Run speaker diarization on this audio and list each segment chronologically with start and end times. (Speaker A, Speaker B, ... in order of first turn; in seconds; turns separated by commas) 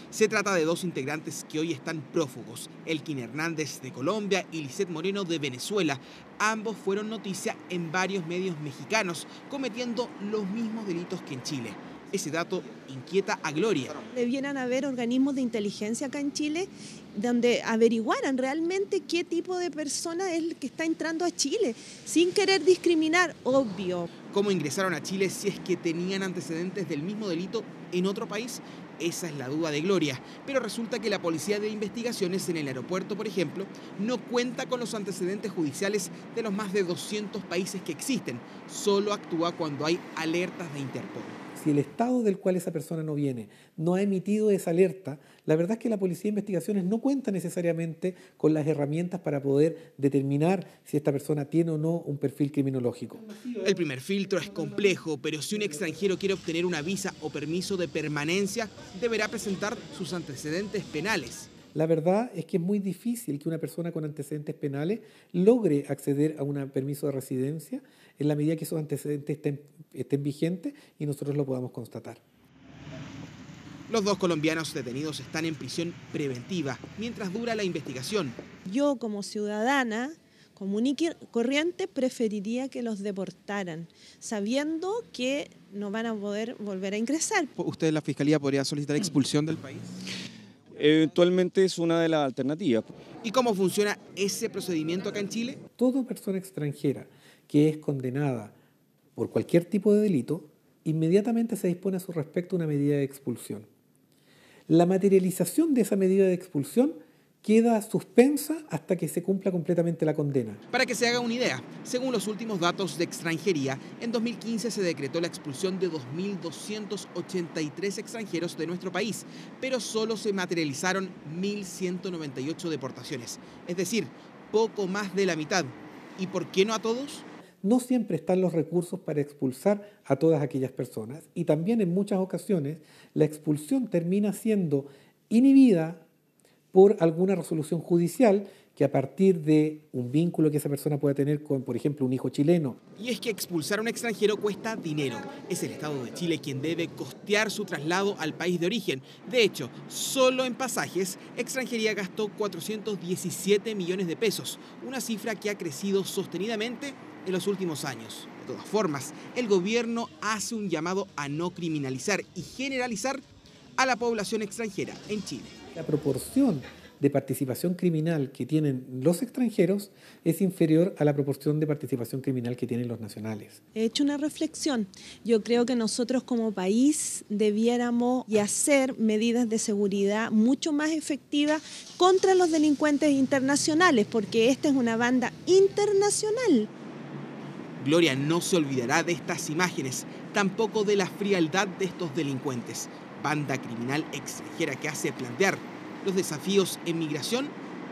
Speaker A: 0.1-14.0, Speaker B: 14.1-24.1, Speaker A: 24.3-41.4, Speaker C: 41.6-53.5, Speaker A: 53.6-61.5, Speaker C: 61.7-72.2, Speaker A: 73.9-78.4, Speaker B: 78.7-87.5, Speaker A: 87.6-90.0, Speaker D: 90.8-92.9, Speaker A: 93.2-95.6, Speaker C: 95.8-98.5, Speaker C: 99.2-103.7, Speaker C: 104.7-110.6, Speaker A: 110.7-127.3, Speaker C: 127.6-136.1, Speaker C: 136.7-142.8, Speaker A: 143.0-163.2, Speaker A: 163.8-165.6, Speaker C: 165.8-173.6, Speaker B: 173.8-186.7, Speaker A: 187.8-197.5